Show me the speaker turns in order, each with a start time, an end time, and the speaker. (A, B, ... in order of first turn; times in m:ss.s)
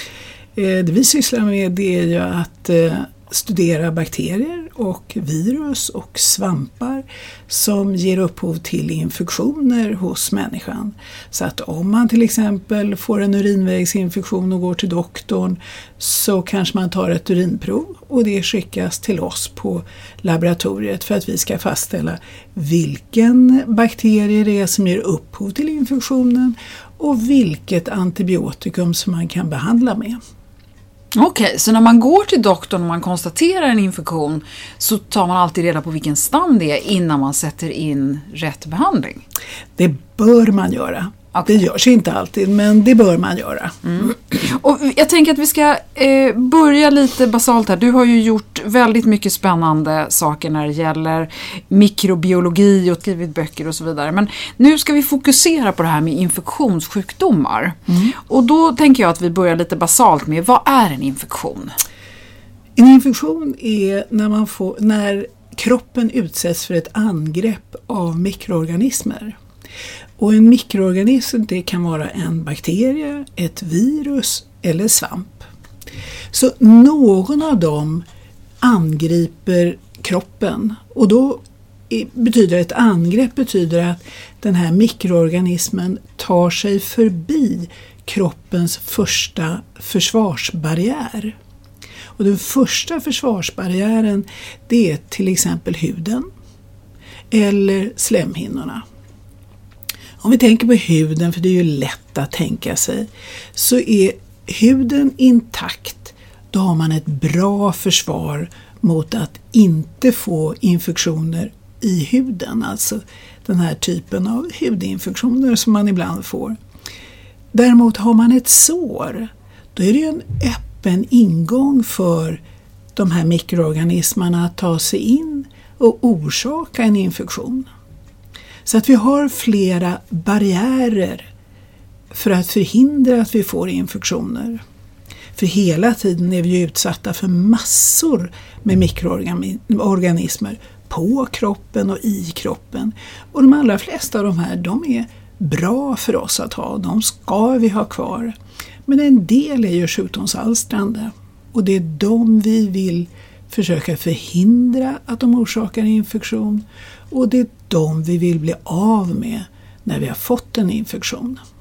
0:00.5-0:30.2 A
0:31.1-0:39.2 B
0:39.8-0:44.3 A
0:41.3-0:41.6 B
0:43.8-0:57.8 B
0:57.9-0:58.1 A
0:58.3-1:01.8 B
1:02.8-1:09.4 A
1:10.2-1:15.5 A
1:16.3-1:18.1 A
1:18.6-1:31.4 A
1:32.2-1:36.3 A
1:37.3-1:38.8 A
1:40.2-1:56.6 A
1:57.5-2:02.4 A
2:02.9-2:07.7 A
2:08.6-2:11.3 A
2:12.1-2:14.6 A
2:15.3-2:28.4 A
2:28.9-2:41.4 A